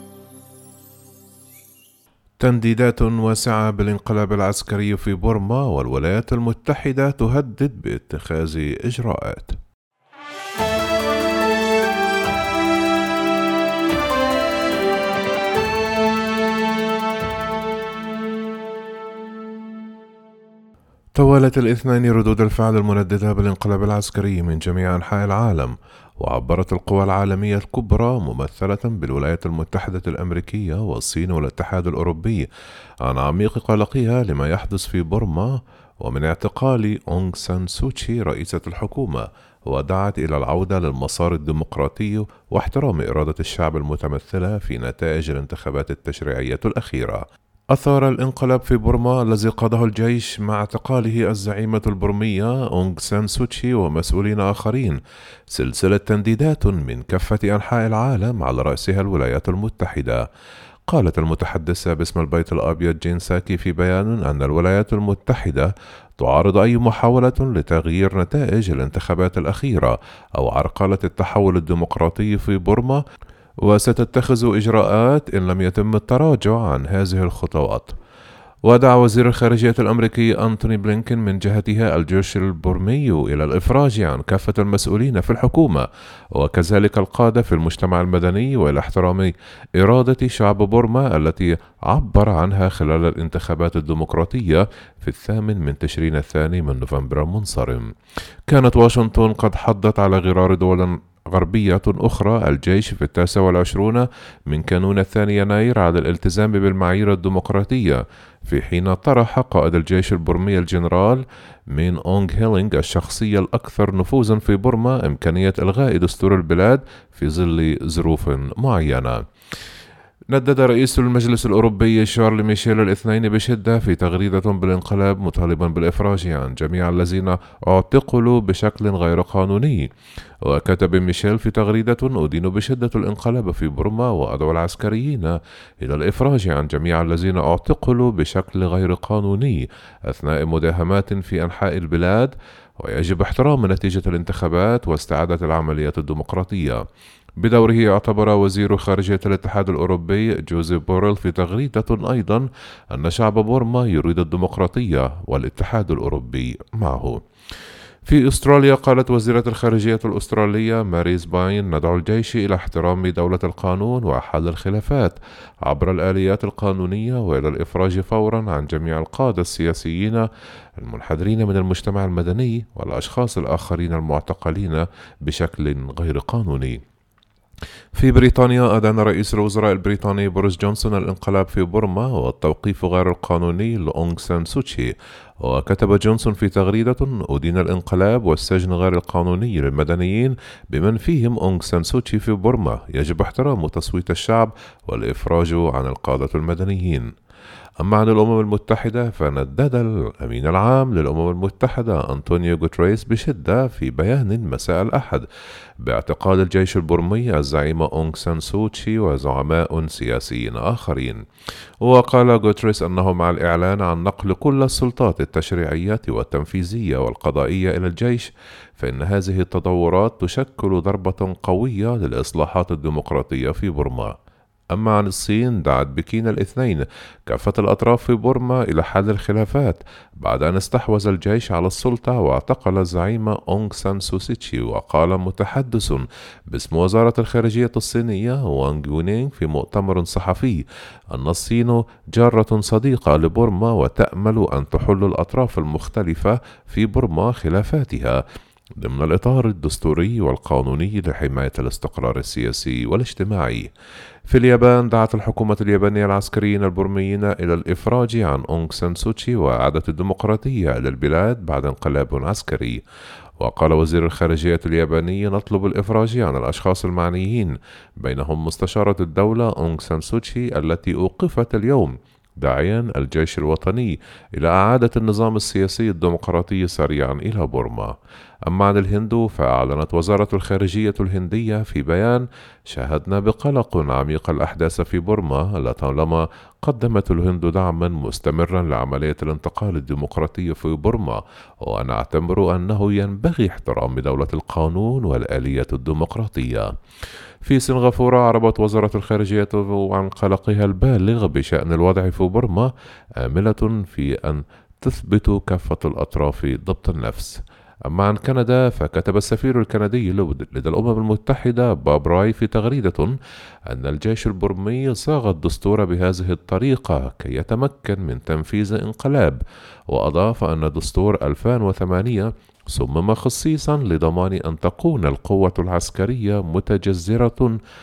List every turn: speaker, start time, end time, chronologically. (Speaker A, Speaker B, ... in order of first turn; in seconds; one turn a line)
Speaker A: 2.4-9.6
Speaker A: 21.2-32.5
Speaker A: 33.0-55.0
Speaker A: 55.5-60.2
Speaker A: 60.9-73.0
Speaker A: 73.6-77.9
Speaker A: 78.7-97.9
Speaker A: 98.5-119.2
Speaker A: 120.3-129.9
Speaker A: 130.4-146.8
Speaker A: 147.4-157.2
Speaker A: 158.1-176.8
Speaker A: 178.0-197.1
Speaker A: 197.8-205.3
Speaker A: 205.8-211.2
Speaker A: 211.8-224.1
Speaker A: 224.7-248.2
Speaker A: 248.8-253.7
Speaker A: 254.3-262.8
Speaker A: 263.4-277.9
Speaker A: 278.5-296.7
Speaker A: 297.4-313.1
Speaker A: 313.7-327.6